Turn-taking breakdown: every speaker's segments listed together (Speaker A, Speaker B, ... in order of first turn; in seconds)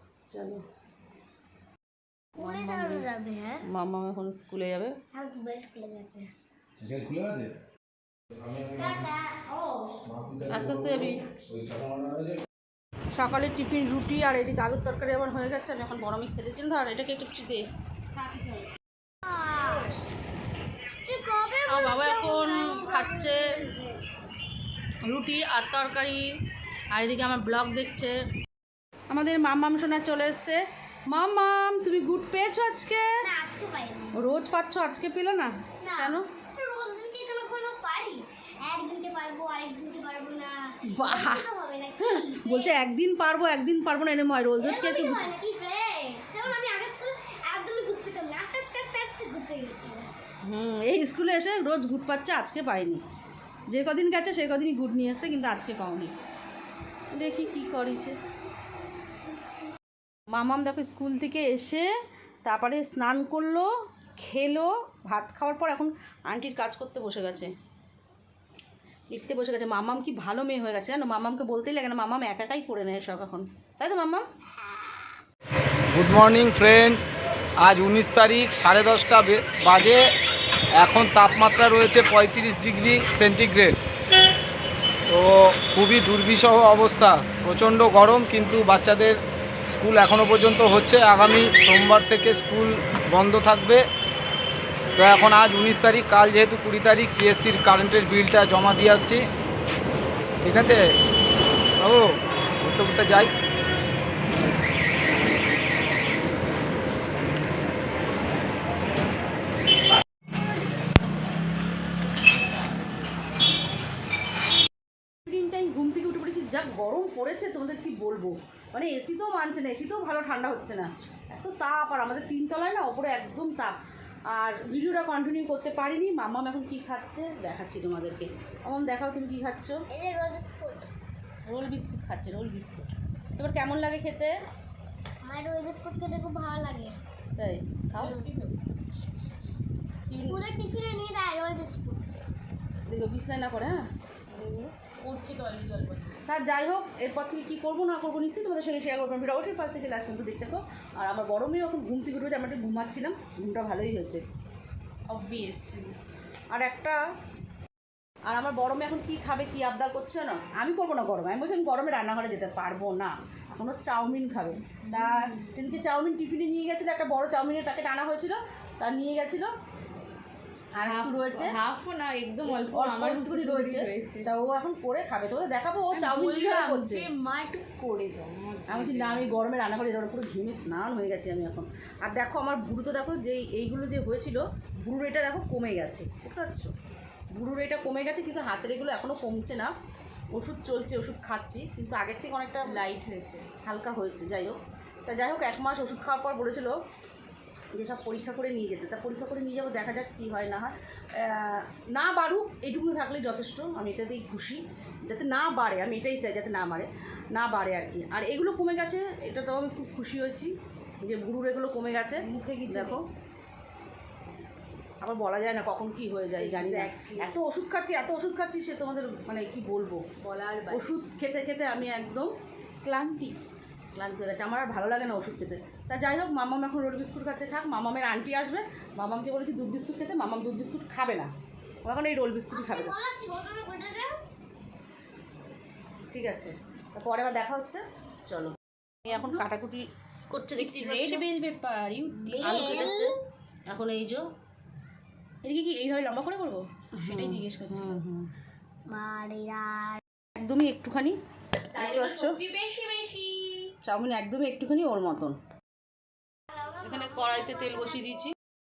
Speaker A: 0.3-0.6, 2.4-3.0, 3.7-4.9, 10.5-11.2, 13.2-17.6, 21.7-23.7, 25.0-26.3, 26.9-28.2, 29.1-33.2, 34.1-36.2, 40.9-41.5, 42.0-45.3, 50.4-53.0, 53.7-56.1, 57.1-58.2, 60.3-61.9, 62.5-67.5, 69.1-74.3, 115.3-123.8, 124.3-129.8, 131.5-134.3, 137.4-138.2, 140.1-140.4, 142.9-143.8, 146.3-154.2, 156.5-157.0, 158.3-169.5, 170.8-171.6, 172.5-177.1, 178.7-186.7, 187.3-189.7, 190.3-192.8, 193.6-196.8, 197.8-213.0, 215.0-220.0, 220.7-222.3, 224.0-231.3, 231.9-232.9, 236.1-238.5, 239.1-241.3, 242.4-243.2, 243.7-244.2, 247.0-248.3, 250.4-251.2, 251.8-252.3, 253.8-255.4, 256.8-258.3
Speaker B: 2.4-3.6, 5.1-6.3, 8.6-9.9, 19.2-20.0, 21.1-24.0, 33.2-34.2, 35.8-42.8, 44.6-50.2, 129.9-130.9, 135.2-137.0, 138.0-138.3, 140.1-142.1, 232.5-234.2, 242.3-243.2, 248.9-250.0, 256.5-257.9
Speaker C: 6.8-7.5, 10.1-10.6, 11.5-12.4, 75.9-80.1, 80.8-83.8, 85.1-93.8, 95.0-99.3, 100.4-100.8, 101.8-103.3
Speaker D: 18.1-18.7, 138.0-138.6, 144.3-146.1, 155.1-155.9, 164.9-165.7, 170.8-174.3, 175.9-179.3, 192.7-193.5, 212.2-213.0, 216.4-217.4, 220.2-220.9, 222.8-223.4, 240.6-242.9, 245.4-248.0, 251.7-253.7